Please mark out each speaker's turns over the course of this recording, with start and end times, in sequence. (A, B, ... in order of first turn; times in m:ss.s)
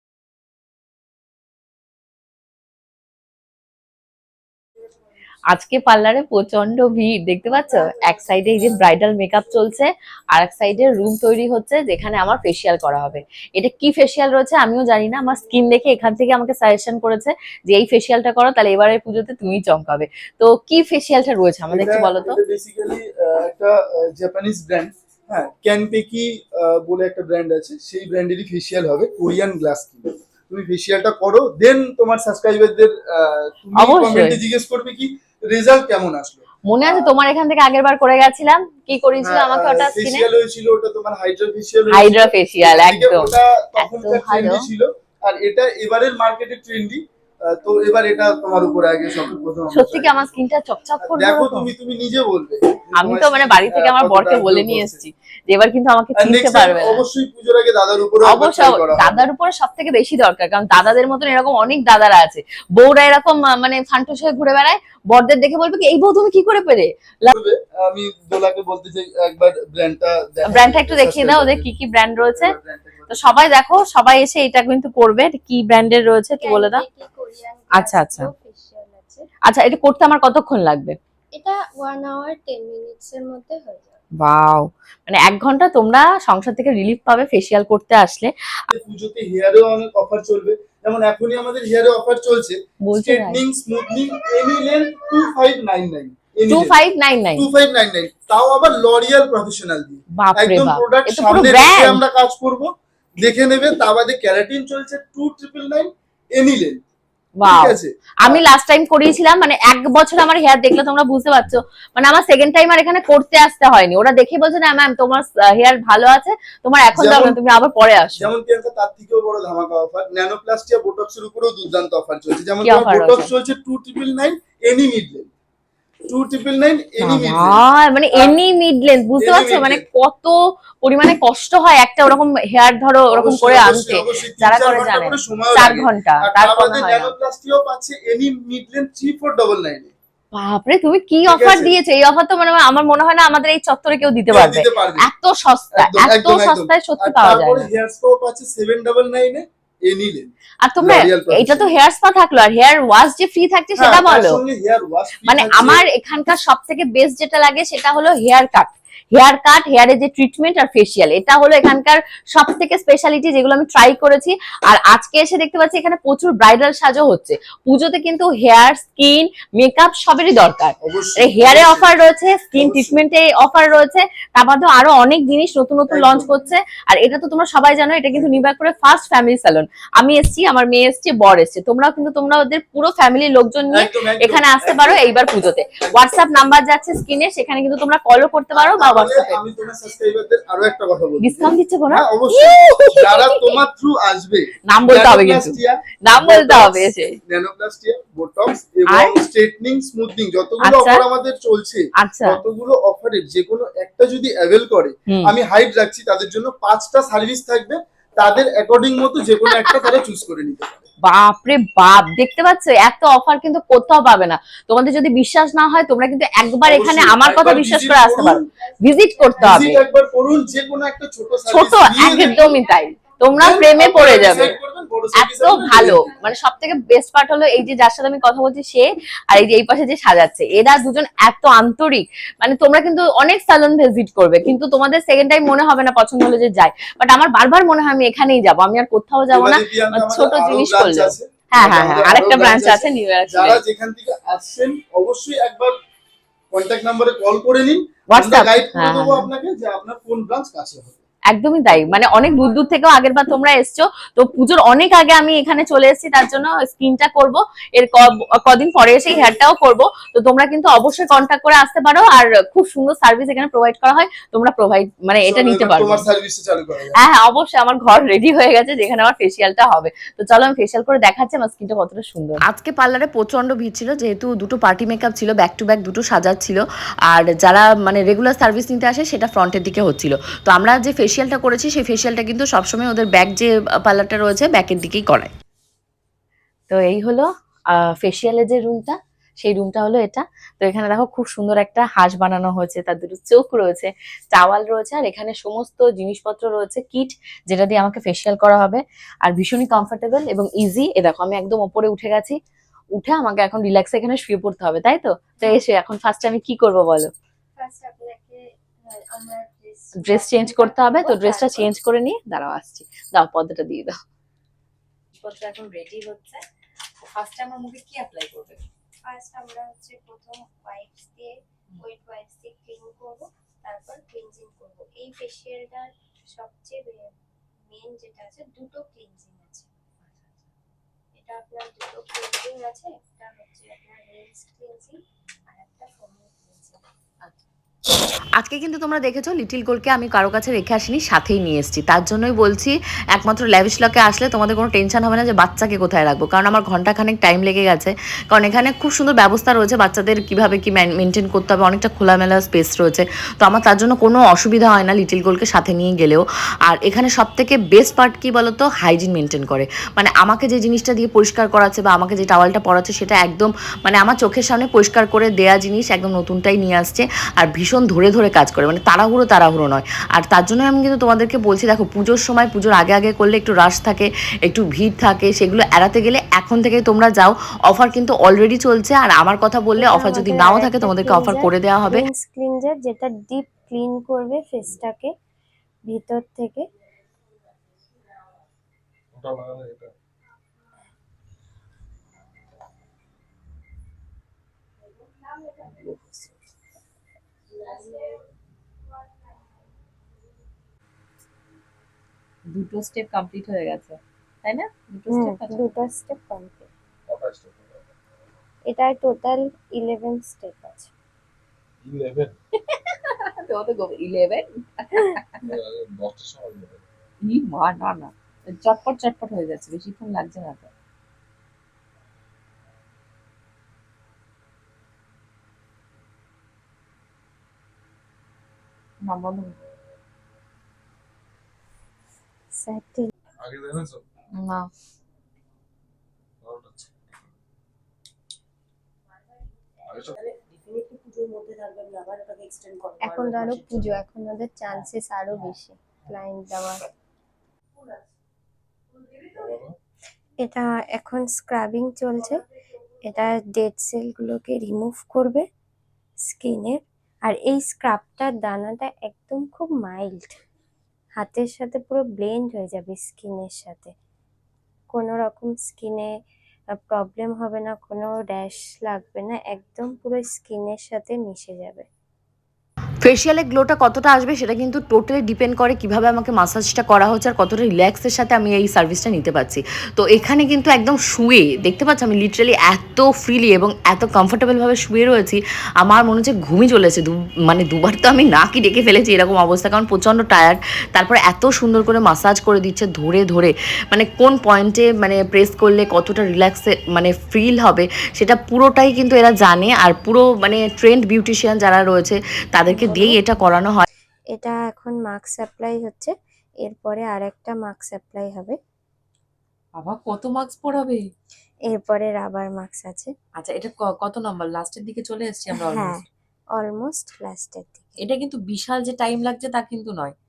0:05.5-0:22.4 A
0:21.7-0:37.1 B
0:33.8-0:34.4 A
0:36.7-0:40.2 A
0:39.2-0:50.2 B
0:41.9-0:44.6 A
0:49.7-0:51.7 A
0:51.0-0:55.0 B
0:53.0-0:57.0 A
0:56.2-0:59.3 B
0:58.2-1:07.3 A
1:07.3-1:11.7 B
1:10.5-1:12.6 A
1:12.2-1:13.3 B
1:13.1-1:16.8 A
1:16.4-1:19.3 C
1:17.8-1:18.3 A
1:19.4-1:21.0 A
1:21.3-1:24.0 C
1:24.2-1:28.3 A
1:28.7-1:36.8 B
1:32.9-1:33.4 A
1:36.5-1:37.4 A
1:37.4-1:46.8 B
1:40.2-1:42.0 A
1:47.4-1:58.2 A
1:47.4-1:48.4 B
1:56.9-1:57.4 B
1:58.2-2:05.3 B
2:02.6-2:03.3 A
2:06.1-2:08.4 B
2:07.0-2:17.1 A
2:09.2-2:09.8 B
2:13.1-2:19.9 B
2:20.3-2:27.7 A
2:21.2-2:21.8 B
2:24.3-2:25.1 B
2:25.7-2:31.7 B
2:30.6-2:34.4 A
2:33.8-2:35.8 B
2:35.3-3:09.4 A
2:50.8-2:51.9 B
2:52.5-2:53.0 B
2:55.9-2:56.4 B
3:03.7-3:06.0 B
3:08.5-3:30.9 B
3:11.2-3:13.6 A
3:14.7-3:17.1 A
3:18.9-3:19.1 A
3:20.6-3:21.0 A
3:22.0-3:22.4 A
3:31.0-3:39.8 A
3:36.5-3:38.4 B
3:39.4-3:42.5 B
3:41.5-3:44.6 A
3:43.3-3:46.1 B
3:45.2-4:03.6 A
3:59.3-4:05.7 B
4:06.5-4:11.0 B
4:08.1-4:09.3 A
4:11.3-4:26.0 A
4:19.0-4:19.4 B
4:25.1-4:27.0 B
4:27.0-4:32.4 A
4:32.5-4:45.3 D
4:46.7-4:47.3 A
4:48.0-5:02.4 A
5:02.9-5:07.1 A
5:07.6-5:11.7 C
5:10.0-5:14.0 A
5:15.1-5:16.4 A
5:17.0-5:18.6 A
5:19.0-5:27.2 C
5:27.7-5:29.7 C
5:30.0-5:30.4 A
5:31.1-5:36.8 C
5:38.4-6:22.0 D
6:19.8-6:25.1 C
6:25.9-6:26.6 C
6:29.1-6:29.9 E
6:35.6-6:36.2 C
6:42.5-6:45.7 A
6:45.1-6:46.7 C
6:47.1-6:47.9 E
6:48.7-6:50.9 C
6:51.8-6:52.3 E
6:52.7-6:55.2 A
6:55.4-6:56.8 E
6:57.2-7:00.7 A
7:09.0-7:09.5 A
7:12.5-7:13.1 C
7:13.4-7:14.0 E
7:14.4-7:14.7 A
7:16.4-7:17.3 E
7:19.9-7:20.2 E
7:23.0-7:26.8 C
7:29.4-7:29.8 E
7:30.4-7:32.4 C
7:33.0-7:35.5 C
7:36.3-7:40.4 C
7:41.2-7:43.9 C
7:44.9-7:46.1 C
7:46.7-7:51.9 C
7:53.0-8:23.9 D
8:22.7-8:23.2 C
8:24.3-8:28.6 C
8:29.8-8:31.0 A
8:31.7-8:33.1 C
8:33.4-8:36.0 A
8:35.5-8:36.0 C
8:36.5-8:37.9 C
8:38.0-8:40.1 A